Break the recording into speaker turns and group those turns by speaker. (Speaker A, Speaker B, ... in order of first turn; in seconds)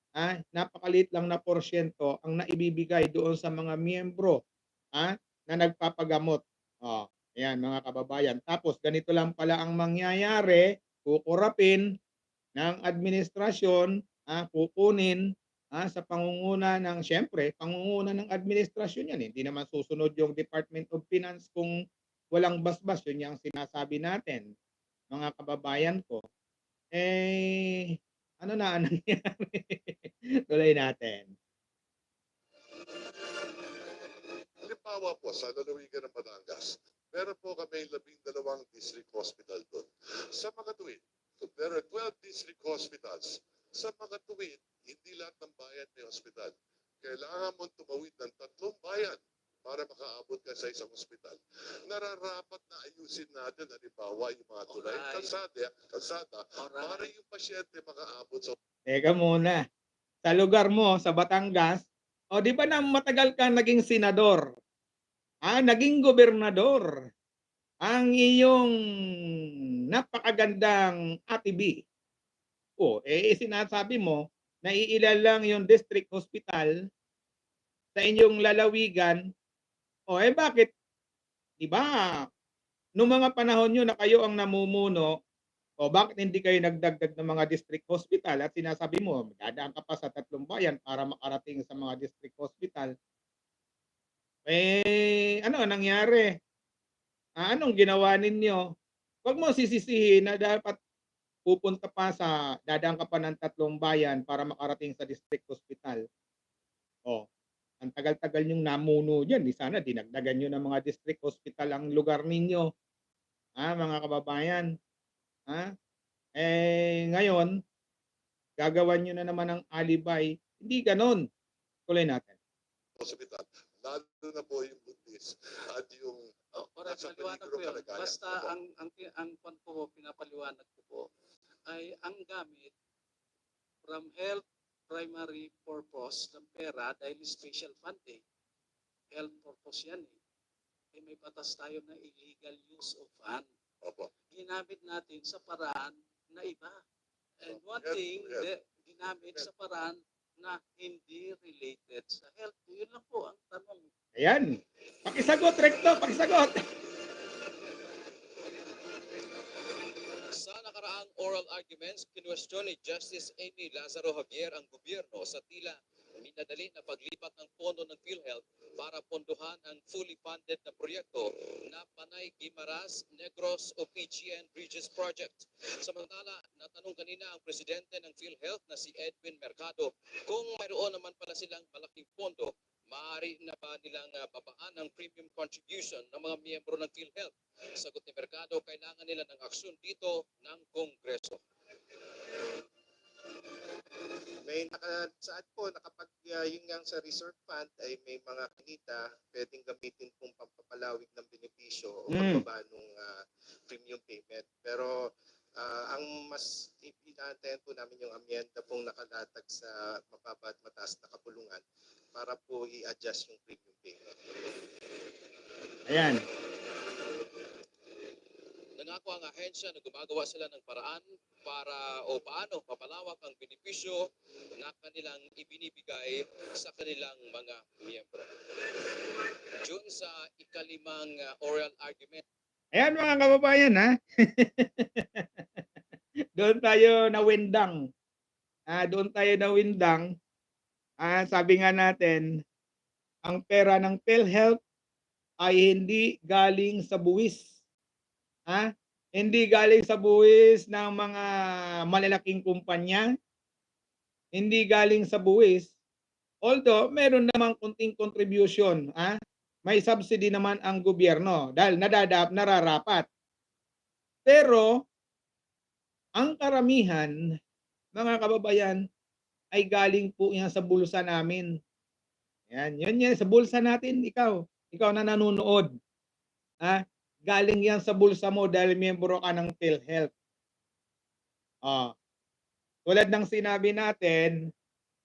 Speaker A: 0.2-4.4, 5.0-11.8, 12.6-15.2, 15.7-21.7, 22.3-24.4, 25.1-26.2, 26.9-27.8, 28.4-31.3, 58.9-59.6, 60.3-64.5, 65.5-66.9, 67.9-68.7, 69.9-71.8, 72.8-76.7, 78.0-79.2, 80.1-80.7, 81.6-82.1, 83.0-85.1, 85.8-92.9, 94.5-96.3, 97.4-98.6, 99.2-100.8, 101.5-106.0, 107.8-112.7, 113.6-114.7, 116.4-117.5, 118.6-121.2, 121.9-122.3, 154.2-154.5, 155.1-156.6, 202.1-202.4, 215.9-216.2, 232.7-233.8, 234.4-235.4, 236.4-237.7, 238.7-240.0, 241.0-242.2, 243.2-244.6, 245.4-247.5, 249.2-251.2, 251.9-253.0, 254.3-255.7, 256.4-259.1, 259.6-263.0, 264.2-264.7, 266.2-267.1, 267.9-268.8, 269.5-271.5, 272.5-275.7, 276.6-280.1, 281.7-281.9, 282.9-284.4
Speaker B: 34.6-58.5, 123.0-126.2, 126.8-128.5, 143.8-144.1, 147.5-148.5
Speaker C: 54.7-55.3, 56.6-57.1, 126.6-131.1, 131.7-132.7, 133.8-138.2, 139.1-140.1, 140.9-143.5, 144.3-146.8, 147.4-153.9
Speaker D: 160.3-191.4, 218.8-224.1, 224.6-228.2, 229.6-232.2
Speaker E: 194.4-204.9, 205.6-214.0